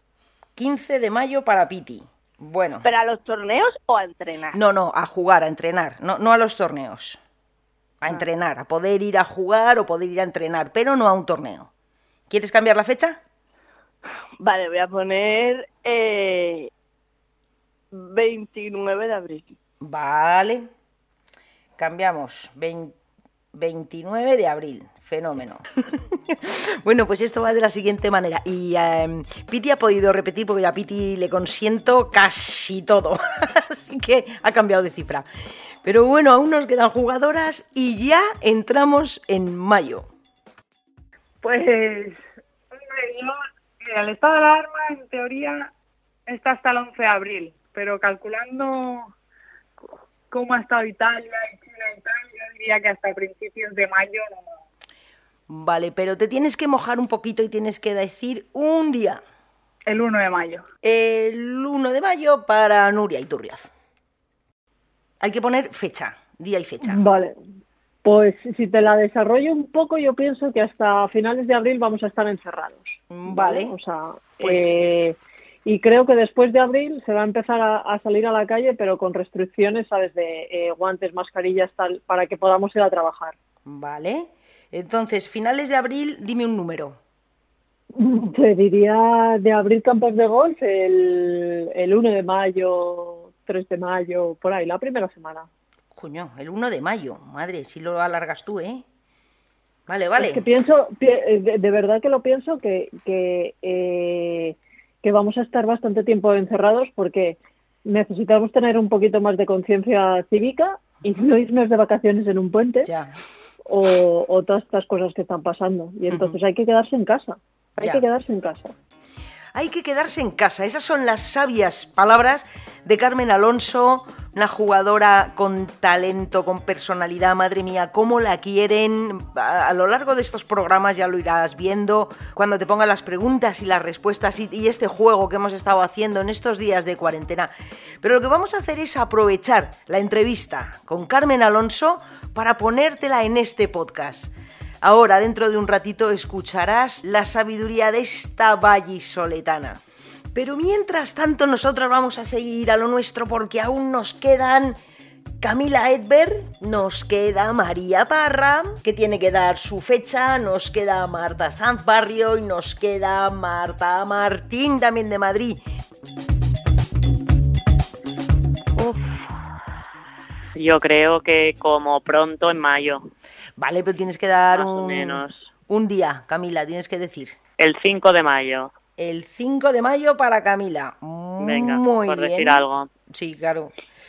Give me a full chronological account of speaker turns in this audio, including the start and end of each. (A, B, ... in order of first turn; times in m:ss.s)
0:00.6-0:02.8 A
0:02.8-0:04.6 B
0:04.5-0:07.2 A
0:08.0-0:11.7 A
0:12.3-0:13.2 A
0:14.4-0:16.7 B
0:17.9-0:19.5 B
0:19.8-0:20.7 A
0:21.8-0:22.9 A
0:23.5-0:35.2 A
0:35.8-0:40.0 A
0:42.7-0:45.7 C
0:46.3-0:49.1 C
0:50.3-0:54.4 C
0:55.5-0:59.2 A
0:59.8-1:00.6 C
1:00.8-1:03.7 A
1:05.2-1:07.0 A
1:06.8-1:07.4 D
1:08.0-1:23.4 D
1:13.1-1:13.7 A
1:14.4-1:14.7 A
1:23.6-1:27.0 A
1:27.9-1:35.5 D
1:35.9-1:38.8 A
1:39.9-1:40.4 A
1:40.2-1:52.9 D
1:52.8-1:53.1 A
1:53.6-1:58.7 D
1:56.1-1:56.4 A
1:59.5-2:29.8 A
2:30.3-2:34.8 A
2:35.4-2:45.6 A
2:50.6-2:53.0 E
2:53.6-2:57.4 A
2:54.5-2:55.5 E
2:57.6-2:58.7 E
2:59.0-3:03.7 A
3:01.4-3:02.9 E